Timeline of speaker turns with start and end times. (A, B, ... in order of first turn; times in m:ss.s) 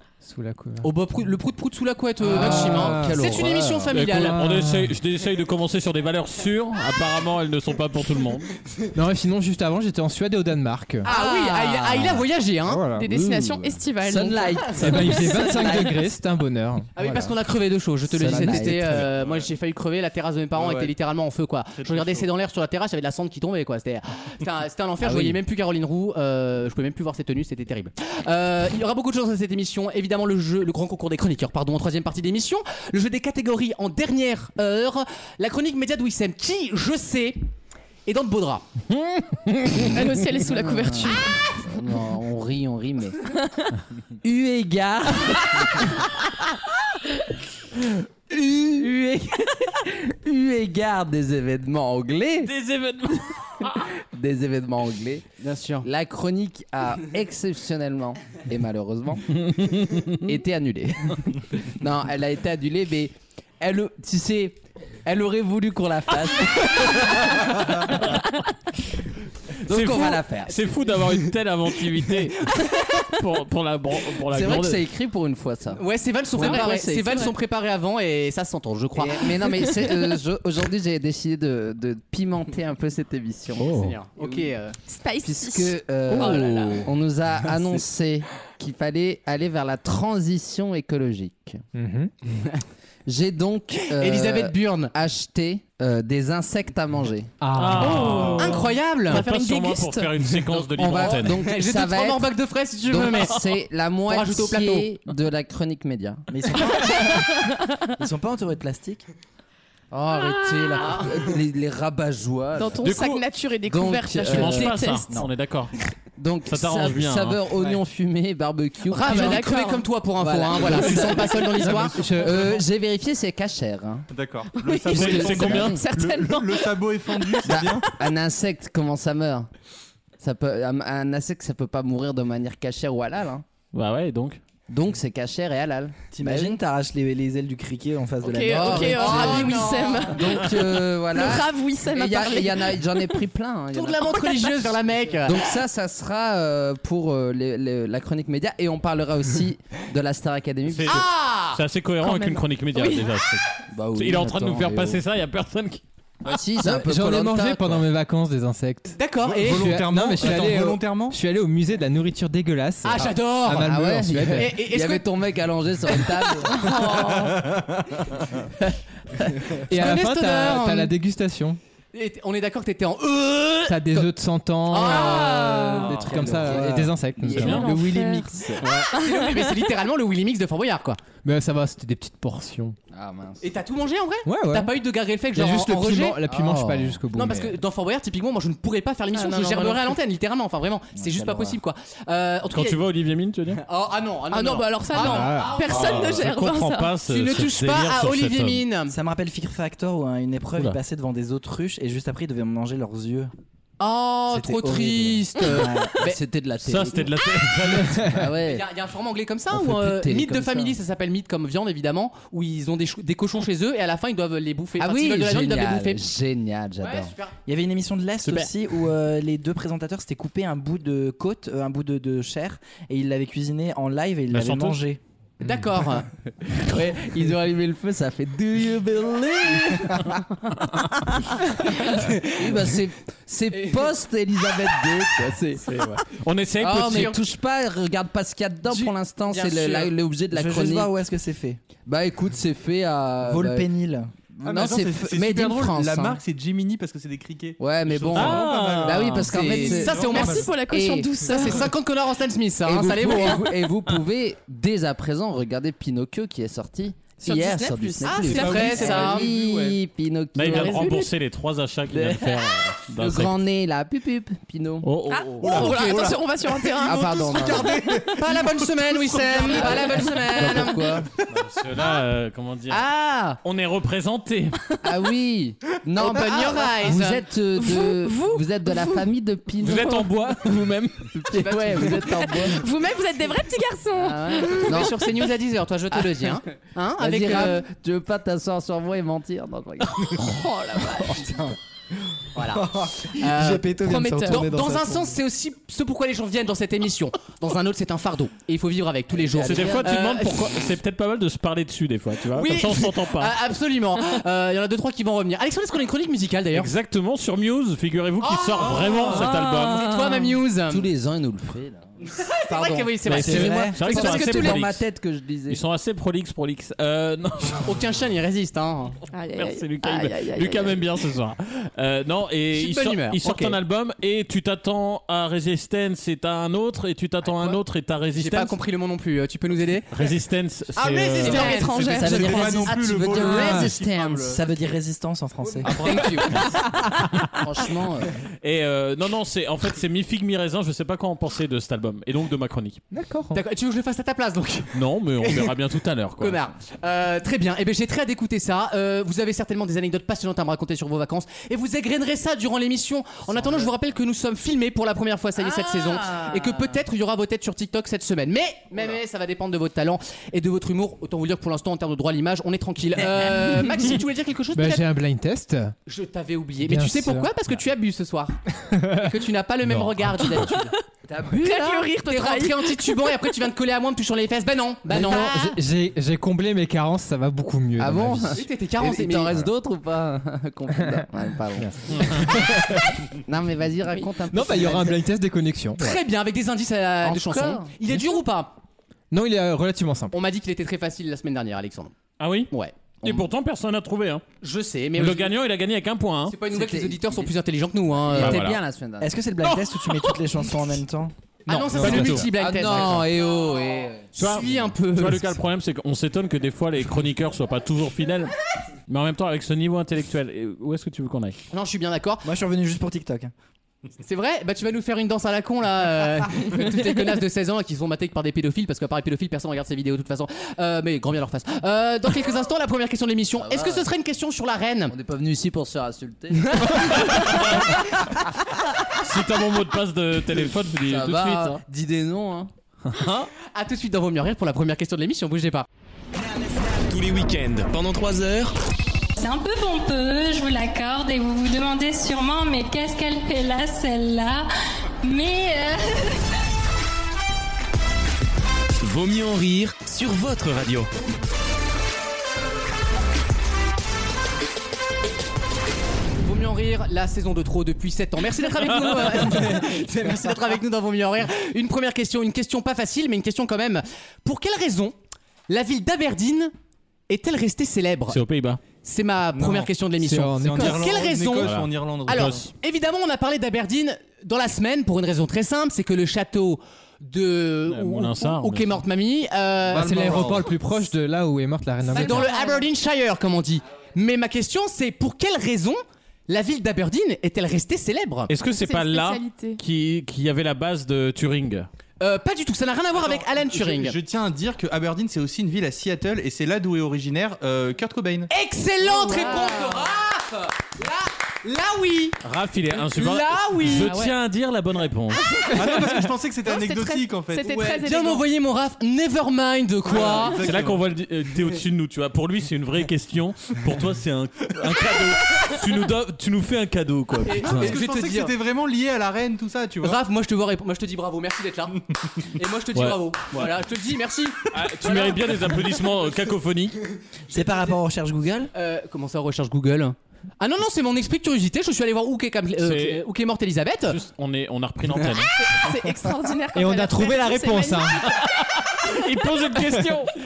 0:00.2-0:00.9 A
0:00.8-0:04.4 B
0:02.3-0:03.2 A
0:02.3-0:03.9 C
0:02.4-0:03.2 D
0:03.9-0:08.5 E
0:04.0-0:04.9 A
0:09.0-0:11.1 A
0:11.0-0:12.9 B
0:11.0-0:12.2 C
0:12.7-0:13.3 A
0:12.8-0:15.9 F
0:14.0-0:15.9 C
0:14.8-0:16.9 A
0:17.0-0:37.4 B
0:18.2-0:19.1 C
0:18.2-0:19.0 A
0:19.0-0:19.5 G
0:20.6-0:20.9 G
0:21.8-0:22.3 G
0:25.0-0:25.4 C
0:38.1-0:38.6 B
0:38.9-0:40.0 E
0:39.8-0:41.4 F
0:40.4-0:43.2 C
0:44.2-0:46.0 C
0:48.3-0:52.5 C
0:52.4-0:53.8 E
0:54.1-0:55.2 C
0:55.4-0:55.9 B
0:55.8-0:59.4 C
0:59.5-1:00.2 E
1:00.2-1:07.5 C
1:09.6-1:10.6 C
1:09.7-1:14.9 E
1:14.3-1:15.8 C
1:15.8-1:19.6 B
1:16.3-1:17.2 C
1:16.4-1:17.3 F
1:19.0-1:24.4 C
1:23.6-1:23.9 E
1:23.7-1:24.8 B
1:24.8-1:26.9 F
1:25.2-1:31.6 C
1:26.1-1:26.6 D
1:31.7-1:32.1 A
1:33.1-1:37.3 C
1:33.9-1:34.9 B
1:37.4-1:38.5 A
1:37.5-1:41.4 E
1:37.8-1:43.4 B
1:37.9-1:38.4 G
1:40.7-1:42.3 C
1:42.8-1:46.2 C
1:44.1-1:44.9 B
1:46.3-1:47.3 D
1:48.0-1:49.0 D
1:49.9-1:52.8 C
1:52.6-1:55.1 F
1:52.8-1:53.2 E
1:53.7-1:54.8 C
1:54.3-1:55.7 E
1:56.2-1:59.5 C
1:56.5-1:57.4 E
1:58.9-2:02.0 B
1:59.0-1:59.9 F
2:00.2-2:04.1 C
2:00.7-2:01.1 F
2:01.6-2:02.5 A
2:04.1-2:07.9 G
2:04.5-2:07.5 F
2:04.9-2:05.8 C
2:04.9-2:05.8 E
2:07.5-2:09.5 C
2:10.2-2:13.4 C
2:13.7-2:14.4 E
2:14.7-2:16.6 C
2:16.1-2:19.3 D
2:18.2-2:23.2 F
2:18.5-2:24.2 C
2:18.8-2:20.5 B
2:23.7-2:25.5 B
2:24.1-2:24.6 F
2:25.3-2:31.0 C
2:30.7-2:35.8 E
2:30.8-2:31.6 B
2:32.0-2:33.1 F
2:33.7-2:35.0 C
2:36.2-2:37.8 C
2:36.6-2:44.5 A
2:39.0-2:39.7 B
2:39.2-2:41.2 G
2:42.8-2:45.1 B
2:43.6-2:46.7 C
2:46.5-2:47.5 F
2:46.9-2:48.4 G
2:49.7-2:51.6 A
2:49.7-2:50.9 B
2:51.9-2:54.1 B
2:53.7-2:57.7 A
2:54.7-2:55.9 B
2:54.9-2:55.9 F
2:55.2-2:58.4 C
2:55.9-2:58.9 D
2:57.3-2:57.7 E
2:57.5-2:58.4 F
2:58.6-3:01.0 B
2:58.9-2:59.6 F
3:01.2-3:02.8 A
3:02.9-3:03.4 C
3:03.4-3:06.2 B
3:04.3-3:04.7 A
3:05.4-3:07.6 A
3:06.3-3:07.0 C
3:07.1-3:12.8 B
3:09.1-3:10.0 F
3:11.2-3:11.5 C
3:12.5-3:13.6 E
3:13.6-3:16.2 B
3:14.3-3:17.0 F
3:15.0-3:15.6 A
3:15.7-3:18.6 E
3:17.0-3:19.0 B
3:18.9-3:23.3 D
3:23.8-3:26.2 B
3:24.3-3:25.9 D
3:25.6-3:27.1 C
3:26.6-3:28.2 E
3:27.9-3:28.6 C
3:28.5-3:36.0 B
3:29.5-3:30.8 C
3:34.8-3:37.1 C
3:36.8-3:37.4 B
3:37.5-3:45.0 D
3:38.2-3:38.5 E
3:44.3-3:44.8 E
3:45.4-3:46.1 B
3:46.6-3:50.1 C
3:51.8-3:52.5 B
3:52.2-3:55.7 C
3:55.7-3:57.2 E
3:56.6-4:00.9 C
3:56.8-3:57.1 B
3:58.7-3:59.9 B
4:00.3-4:01.6 D
4:01.9-4:03.7 C
4:03.2-4:04.6 D
4:04.4-4:06.2 C
4:04.4-4:10.6 G
4:07.6-4:10.0 C
4:08.2-4:09.2 E
4:09.2-4:10.5 B
4:09.4-4:11.7 F
4:10.6-4:11.1 C
4:11.3-4:13.5 B
4:12.6-4:21.1 C
4:17.2-4:19.2 F
4:18.0-4:19.3 B
4:18.3-4:19.8 G
4:20.4-4:23.4 E
4:21.9-4:22.4 C
4:23.0-4:24.9 C
4:24.8-4:25.7 E
4:25.1-4:27.8 F
4:25.4-4:30.2 G
4:26.8-4:27.8 C
4:28.0-4:31.0 B
4:29.4-4:31.0 F
4:30.3-4:31.1 C
4:31.3-4:32.9 E
4:32.7-4:33.4 C
4:33.4-4:34.6 E
4:34.8-4:40.1 C
4:36.0-4:37.2 B
4:37.6-4:39.1 F
4:39.6-4:41.2 E
4:41.1-4:42.6 C
4:41.4-4:45.1 F
4:41.4-4:42.2 B
4:44.0-4:44.9 C
4:44.2-4:47.7 B
4:45.9-4:46.3 C
4:47.0-4:50.2 C
4:50.2-4:51.3 F
4:51.0-4:51.4 C
4:52.4-5:00.5 B
4:52.4-4:55.0 D
4:53.8-4:54.5 F
4:59.2-4:59.6 D
4:59.4-5:03.4 E
5:02.3-5:06.7 B
5:06.5-5:10.1 E
5:08.2-5:10.9 B
5:08.6-5:09.2 G
5:09.1-5:10.2 F
5:10.7-5:11.9 C
5:12.1-5:14.6 B
5:12.5-5:15.6 C
5:13.1-5:14.8 E
5:13.1-5:13.8 D
5:15.5-5:17.7 E
5:17.6-5:19.0 B
5:19.1-5:20.8 F
5:19.3-5:28.5 E
5:22.5-5:23.6 B
5:27.3-5:27.6 B
5:28.1-5:29.9 B
5:29.9-5:31.6 E
5:30.8-5:32.6 B
5:31.2-5:32.7 F
5:31.9-5:34.4 G
5:32.0-5:34.4 C
5:32.0-5:32.5 D
5:33.2-5:33.7 A
5:34.3-5:36.1 D
5:35.6-5:36.4 B
5:36.7-5:37.1 F
5:37.4-5:38.1 C
5:38.4-5:42.8 E
5:42.9-5:43.4 A
5:43.3-5:45.6 B
5:44.7-5:46.4 E
5:46.2-6:04.8 B
5:55.4-5:56.8 C
6:04.5-6:05.8 A
6:05.9-6:08.4 B
6:06.6-6:07.3 A
6:08.7-6:09.1 A
6:08.9-6:10.8 B
6:09.6-6:10.3 A
6:11.1-6:11.6 C
6:11.3-6:13.2 F
6:11.9-6:15.6 B
6:14.9-6:18.4 A
6:17.8-6:21.7 C
6:18.4-6:19.4 B
6:21.6-6:23.0 A
6:21.9-6:22.4 E
6:23.2-6:25.0 C
6:24.3-6:26.0 A
6:25.8-6:28.5 B
6:27.0-6:27.7 C
6:29.1-6:30.1 A
6:30.1-6:31.9 B
6:32.2-6:34.2 E
6:32.5-6:33.3 B
6:34.4-6:35.3 B
6:35.0-6:36.4 E
6:36.3-6:38.5 B
6:36.5-6:37.3 C
6:38.2-6:38.6 E
6:38.2-6:39.2 C
6:39.0-6:41.1 D
6:39.4-6:40.1 E
6:41.5-6:43.1 B
6:41.5-6:44.0 C
6:41.8-6:42.3 E
6:44.1-6:45.4 B
6:44.2-6:48.3 E
6:48.9-6:51.4 E
6:51.5-6:52.3 B
6:52.2-6:53.3 D
6:54.0-7:04.9 B
7:03.4-7:03.9 C
7:04.9-7:06.9 C
7:06.5-7:07.4 B
7:07.1-7:07.7 E
7:09.0-7:11.6 E
7:10.9-7:12.5 C
7:12.8-7:13.3 E
7:13.5-7:15.7 B
7:16.8-7:18.5 H
7:19.2-7:24.5 I
7:25.0-7:26.2 I
7:28.8-7:30.9 H
7:36.2-7:44.9 B
7:38.6-7:39.4 E
7:45.5-7:46.5 B
7:47.1-7:48.2 B
7:48.1-7:48.6 E
7:48.8-7:51.5 B
7:49.3-7:49.7 G
7:50.0-7:50.9 A
7:50.4-7:52.4 G
7:51.4-7:52.5 E
7:52.1-8:00.3 B
7:57.7-7:58.8 E
7:59.6-8:00.6 G
7:59.7-8:02.3 A
8:01.9-8:02.7 F
8:01.9-8:08.3 B
8:08.3-8:11.7 E
8:08.4-8:09.6 F
8:12.0-8:14.0 B
8:13.0-8:18.3 G
8:18.3-8:22.2 B
8:18.8-8:19.8 F
8:22.2-8:25.2 E
8:22.7-8:24.0 B
8:23.8-8:24.1 F
8:25.3-8:28.2 F
8:25.5-8:27.5 G
8:27.4-8:30.5 B
8:29.9-8:30.8 G
8:30.4-8:37.8 E
8:37.3-8:38.3 B
8:37.4-8:40.0 G
8:39.8-8:45.2 B
8:42.8-8:43.5 E
8:44.5-8:46.8 E
8:47.3-8:48.5 D
8:48.5-8:54.0 B
8:52.6-8:53.0 E
8:53.9-8:55.3 E
8:55.4-8:58.2 F
8:56.5-8:58.0 A
8:58.0-9:00.1 E